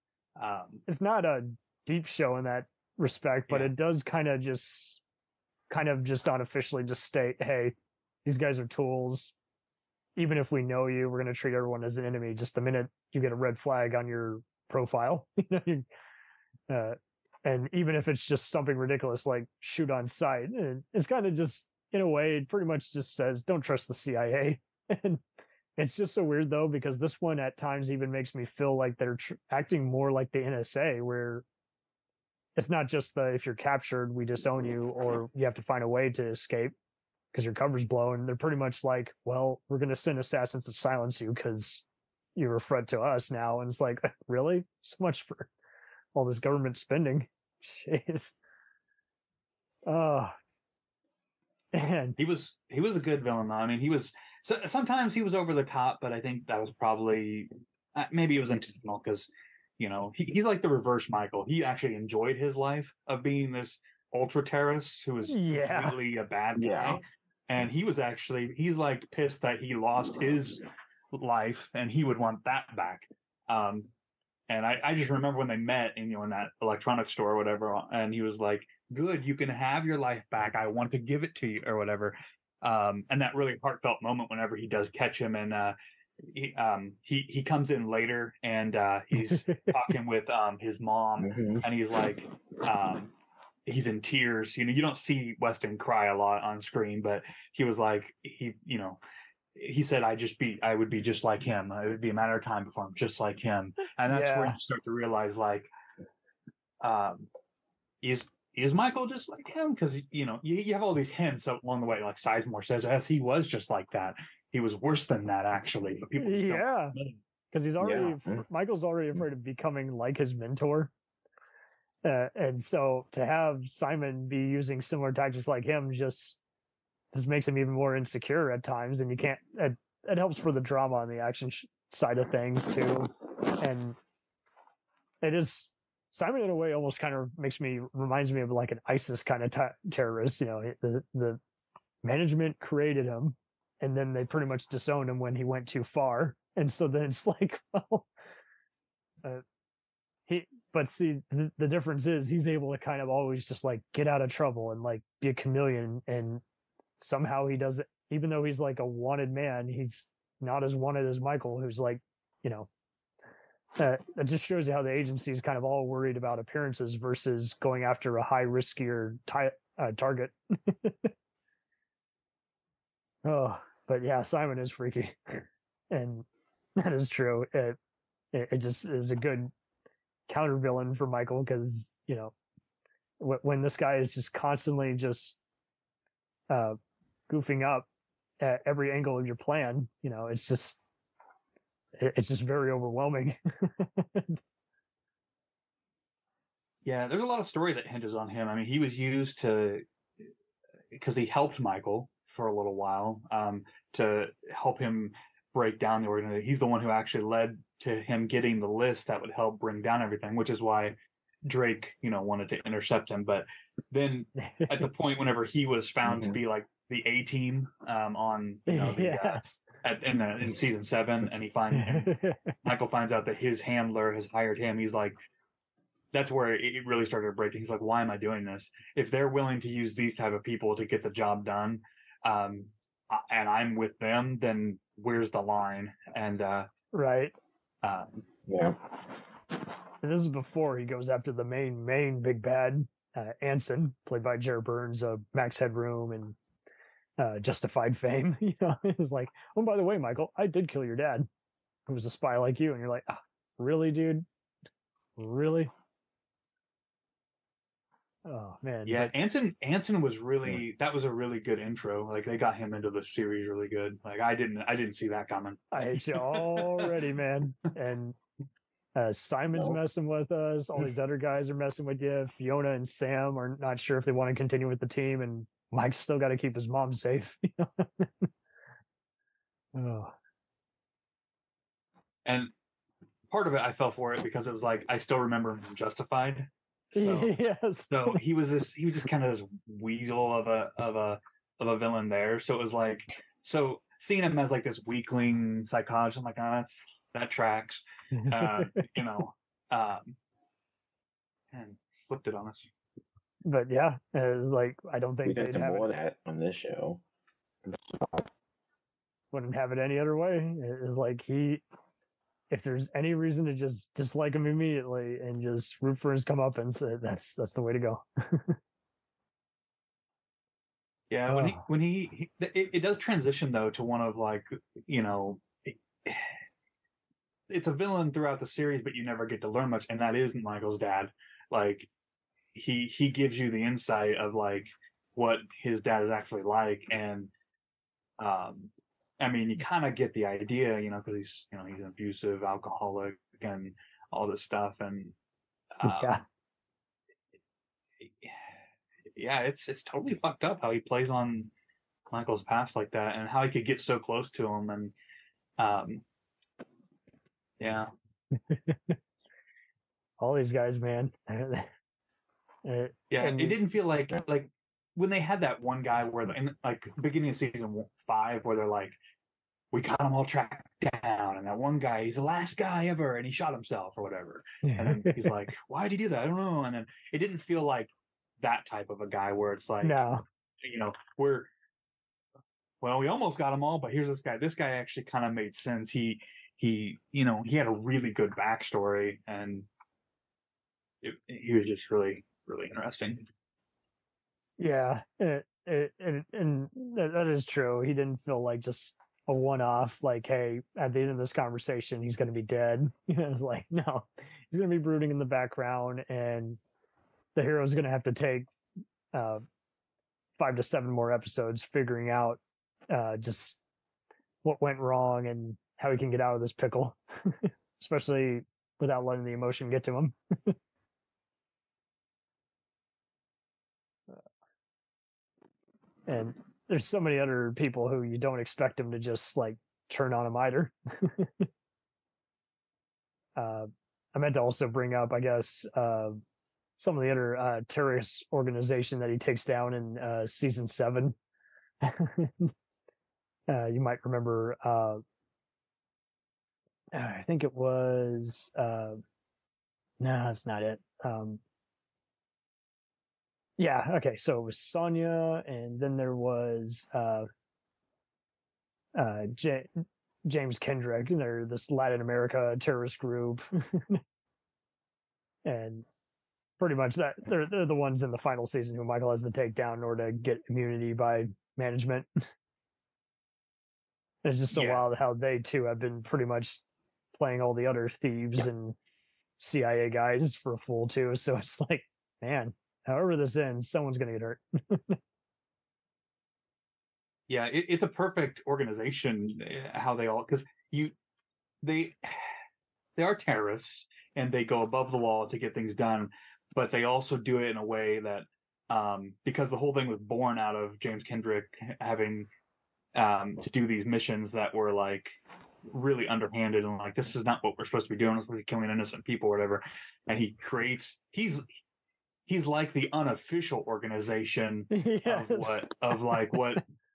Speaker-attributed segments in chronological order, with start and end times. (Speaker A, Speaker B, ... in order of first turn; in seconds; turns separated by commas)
Speaker A: 0.4-0.8, Speaker B: 0.9-5.0, Speaker A: 3.5-3.7, Speaker B: 5.7-9.3, Speaker B: 10.2-15.8, Speaker B: 16.7-25.2, Speaker B: 25.8-31.4, Speaker B: 32.6-36.7, Speaker B: 37.3-41.9, Speaker B: 42.4-45.5, Speaker B: 46.1-48.4, Speaker B: 49.9-50.3, Speaker B: 51.7-52.2, Speaker A: 52.2-73.9, Speaker B: 65.3-66.0, Speaker C: 66.5-67.0, Speaker A: 74.5-85.8, Speaker A: 86.3-93.1, Speaker B: 89.3-89.7, Speaker C: 91.2-91.7, Speaker A: 93.7-99.0, Speaker A: 99.5-105.7, Speaker B: 104.1-104.6, Speaker A: 106.8-107.3, Speaker A: 108.0-117.2, Speaker B: 116.2-117.0, Speaker B: 117.5-120.9, Speaker C: 117.8-118.5, Speaker B: 122.0-126.4, Speaker B: 127.1-134.0, Speaker B: 135.2-141.4, Speaker B: 142.0-148.1, Speaker B: 150.3-156.4, Speaker B: 157.0-162.7, Speaker B: 163.8-171.1, Speaker B: 173.2-176.3, Speaker B: 176.8-177.8, Speaker B: 178.3-179.5, Speaker B: 180.3-182.3, Speaker B: 183.2-185.4, Speaker B: 186.5-186.8, Speaker B: 187.3-187.9, Speaker B: 188.4-190.8, Speaker B: 192.0-194.4, Speaker A: 196.8-199.8, Speaker A: 200.9-225.2, Speaker B: 214.4-214.8, Speaker C: 216.1-216.4, Speaker B: 218.7-219.6, Speaker B: 221.7-222.5, Speaker A: 226.1-236.7, Speaker B: 236.9-237.3, Speaker A: 237.8-238.2, Speaker C: 238.5-239.0, Speaker B: 240.0-246.4, Speaker B: 247.2-251.3, Speaker B: 251.9-254.3, Speaker B: 255.2-255.7, Speaker B: 258.3-259.1, Speaker A: 258.9-266.9, Speaker B: 265.7-268.2, Speaker B: 268.9-278.3, Speaker C: 269.5-269.8, Speaker B: 279.7-280.1, Speaker A: 282.3-282.5, Speaker A: 283.3-300.2, Speaker B: 286.9-288.2, Speaker B: 298.2-298.8, Speaker A: 301.5-302.7, Speaker B: 303.4-305.9, Speaker C: 305.2-307.0, Speaker C: 307.6-308.3, Speaker B: 309.3-311.6, Speaker B: 312.5-318.6, Speaker A: 321.1-326.4, Speaker B: 321.3-321.6, Speaker A: 327.5-331.9, Speaker A: 332.5-337.3, Speaker A: 338.2-345.1, Speaker A: 345.8-346.2, Speaker B: 345.8-346.2, Speaker A: 348.0-348.4, Speaker A: 349.2-351.5, Speaker A: 352.1-354.9, Speaker A: 355.6-356.0, Speaker A: 357.6-357.9, Speaker B: 358.5-358.9, Speaker B: 360.2-361.7, Speaker B: 362.6-363.6, Speaker A: 363.1-369.0, Speaker A: 369.7-380.1, Speaker B: 374.6-375.3, Speaker B: 379.8-380.2, Speaker A: 380.6-381.5, Speaker A: 382.8-389.7, Speaker A: 391.0-393.3, Speaker B: 394.6-406.6, Speaker B: 407.4-408.5, Speaker B: 409.1-409.4, Speaker B: 410.4-413.6, Speaker B: 414.4-420.6, Speaker B: 426.1-431.5, Speaker B: 433.4-436.2, Speaker B: 436.8-441.2, Speaker B: 441.8-442.5, Speaker B: 443.5-445.0, Speaker B: 446.9-449.0, Speaker B: 450.0-451.4, Speaker B: 453.6-457.3, Speaker B: 458.9-464.0, Speaker B: 465.4-465.9, Speaker B: 466.6-472.3, Speaker B: 474.2-476.6, Speaker A: 474.5-474.8, Speaker B: 477.1-478.8, Speaker B: 479.4-485.0, Speaker A: 487.3-490.9, Speaker A: 491.6-492.4, Speaker A: 493.0-502.3, Speaker A: 502.9-511.4, Speaker A: 512.3-516.6, Speaker B: 514.7-516.6